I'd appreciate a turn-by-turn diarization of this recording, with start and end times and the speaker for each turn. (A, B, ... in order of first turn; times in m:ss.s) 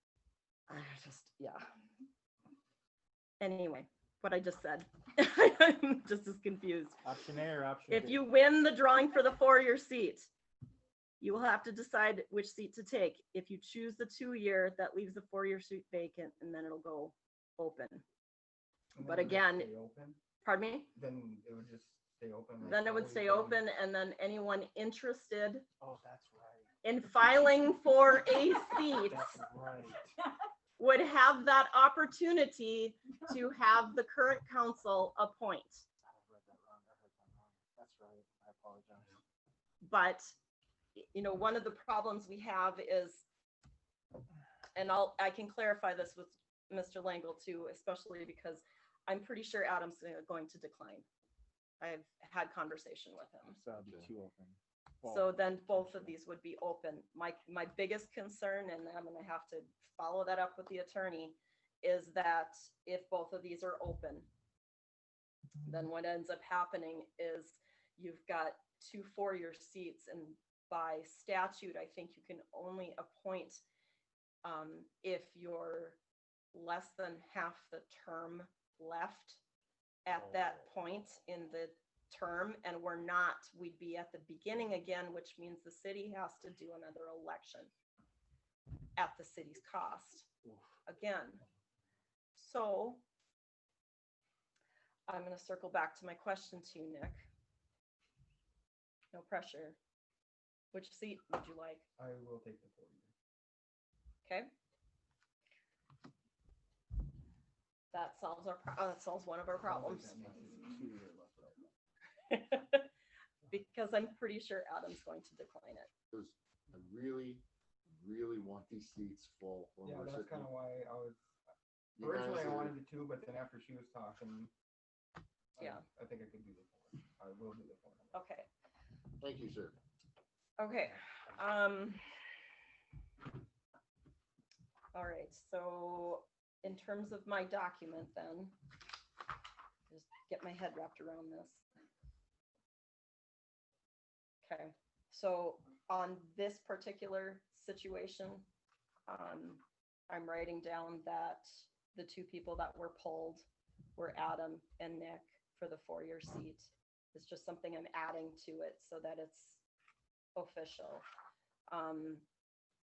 0:00.7-0:01.6 A
0:03.4-0:07.0 A
0:07.0-0:08.2 B
0:07.9-0:10.3 A
0:11.2-0:18.0 A
0:18.9-0:20.2 C
0:19.0-0:19.7 A
0:20.4-0:20.9 A
0:20.9-0:23.6 C
0:22.6-0:25.6 A
0:25.8-0:26.7 B
0:26.8-0:29.3 A
0:28.8-0:30.1 B
0:30.8-0:35.8 A
0:36.1-0:39.2 B
0:39.8-0:40.3 A
0:41.0-0:43.2 A
0:44.8-0:51.0 A
0:51.8-0:53.6 A
0:53.6-0:56.1 B
0:53.8-0:54.0 D
0:55.1-1:04.3 A
1:05.6-1:13.6 A
1:14.4-1:16.0 A
1:16.5-1:19.4 A
1:20.0-1:27.7 A
1:29.0-1:30.3 A
1:30.8-1:31.4 A
1:32.4-1:33.0 A
1:35.1-1:37.2 A
1:39.1-1:39.8 A
1:40.7-1:41.8 A
1:42.0-1:43.1 C
1:44.2-1:44.5 A
1:47.9-1:50.2 A
1:49.6-1:51.6 C
1:52.3-1:52.9 A
1:53.5-1:55.9 A
1:56.1-2:00.5 D
1:59.8-2:01.2 C
2:02.0-2:02.8 D
2:02.0-2:04.5 C
2:05.6-2:08.1 C
2:08.1-2:08.5 A
2:09.2-2:09.8 D
2:10.6-2:12.0 A
2:14.9-2:18.5 A
2:19.9-2:21.6 A
2:24.4-2:28.4 A
2:29.1-2:39.6 A
2:40.4-2:41.0 A
2:41.7-2:42.2 A